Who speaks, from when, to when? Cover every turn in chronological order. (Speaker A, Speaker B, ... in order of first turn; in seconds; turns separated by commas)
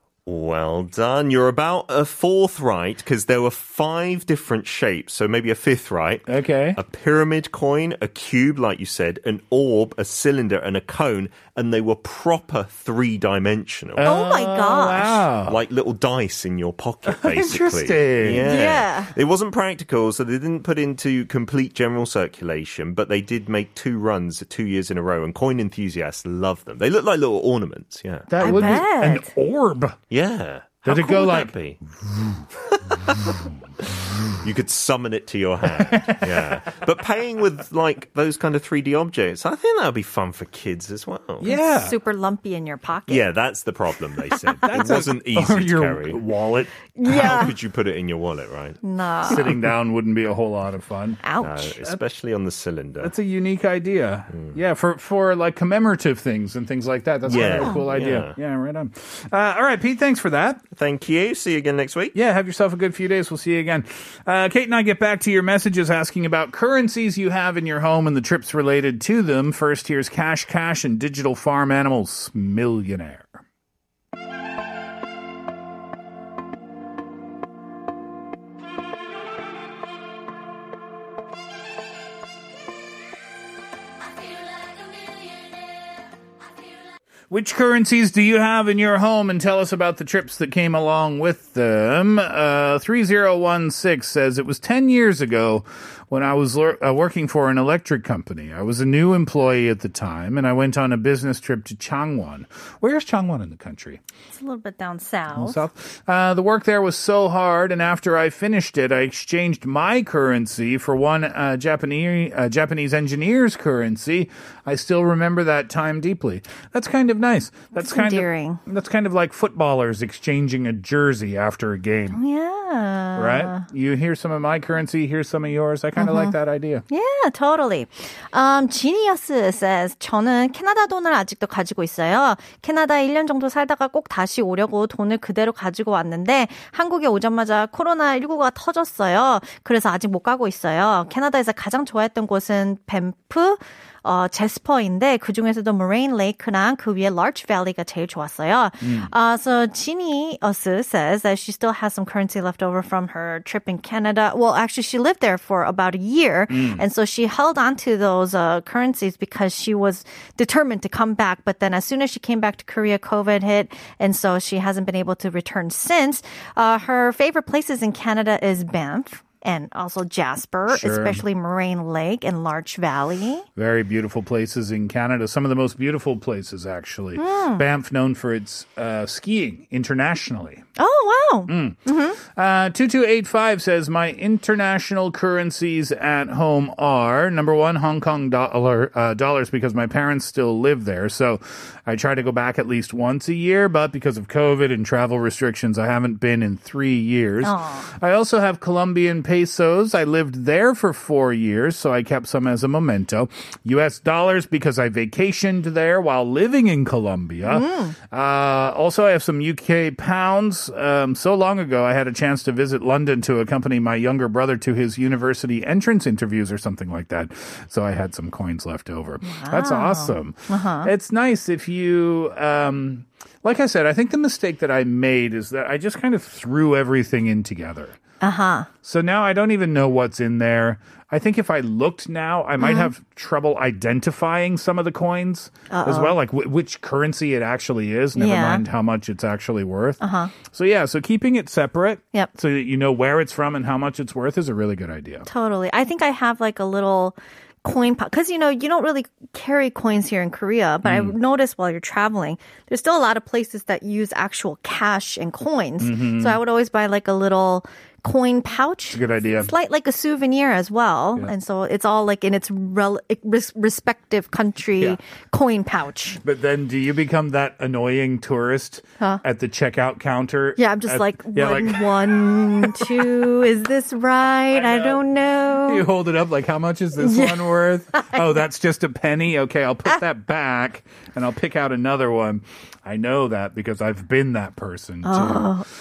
Speaker A: 0.2-14.1, Speaker B: 6.3-6.8, Speaker B: 13.9-15.6, Speaker C: 14.0-15.2, Speaker A: 15.5-28.8, Speaker B: 17.0-18.5, Speaker C: 18.4-19.1, Speaker B: 28.3-30.0, Speaker C: 28.4-29.3, Speaker A: 30.1-31.8, Speaker B: 30.8-33.5, Speaker A: 32.6-41.5, Speaker B: 35.6-36.6, Speaker B: 41.4-42.0, Speaker C: 41.4-43.2, Speaker A: 43.1-46.2, Speaker B: 44.6-47.4, Speaker C: 47.0-47.5, Speaker A: 47.0-49.6, Speaker C: 48.8-49.4, Speaker B: 49.2-51.2, Speaker C: 51.2-51.8, Speaker A: 51.4-53.1, Speaker B: 53.0-60.6, Speaker A: 57.2-58.3, Speaker C: 57.6-57.9, Speaker A: 60.7-62.1, Speaker B: 62.1-73.4, Speaker B: 87.3-104.0, Speaker C: 104.3-105.6, Speaker B: 105.3-122.2, Speaker C: 117.7-118.6, Speaker C: 122.1-123.6, Speaker B: 123.2-126.8, Speaker C: 126.0-126.3, Speaker C: 126.9-173.4, Speaker B: 148.8-149.1, Speaker B: 156.5-156.8, Speaker B: 170.7-171.2, Speaker B: 173.6-180.6, Speaker C: 177.2-177.6, Speaker C: 180.8-182.2, Speaker B: 181.5-228.0, Speaker C: 197.4-197.9, Speaker C: 207.4-207.9, Speaker C: 219.2-220.9, Speaker C: 228.2-228.7, Speaker B: 228.8-245.3, Speaker C: 232.6-232.9, Speaker C: 235.7-236.2, Speaker C: 238.1-238.6, Speaker C: 240.0-240.3, Speaker C: 245.2-266.2, Speaker B: 250.8-251.1, Speaker B: 255.8-256.4, Speaker B: 258.9-259.5, Speaker B: 266.2-273.1, Speaker C: 270.6-275.9, Speaker B: 274.5-275.0, Speaker B: 275.6-285.6, Speaker C: 277.0-278.3, Speaker C: 285.0-285.6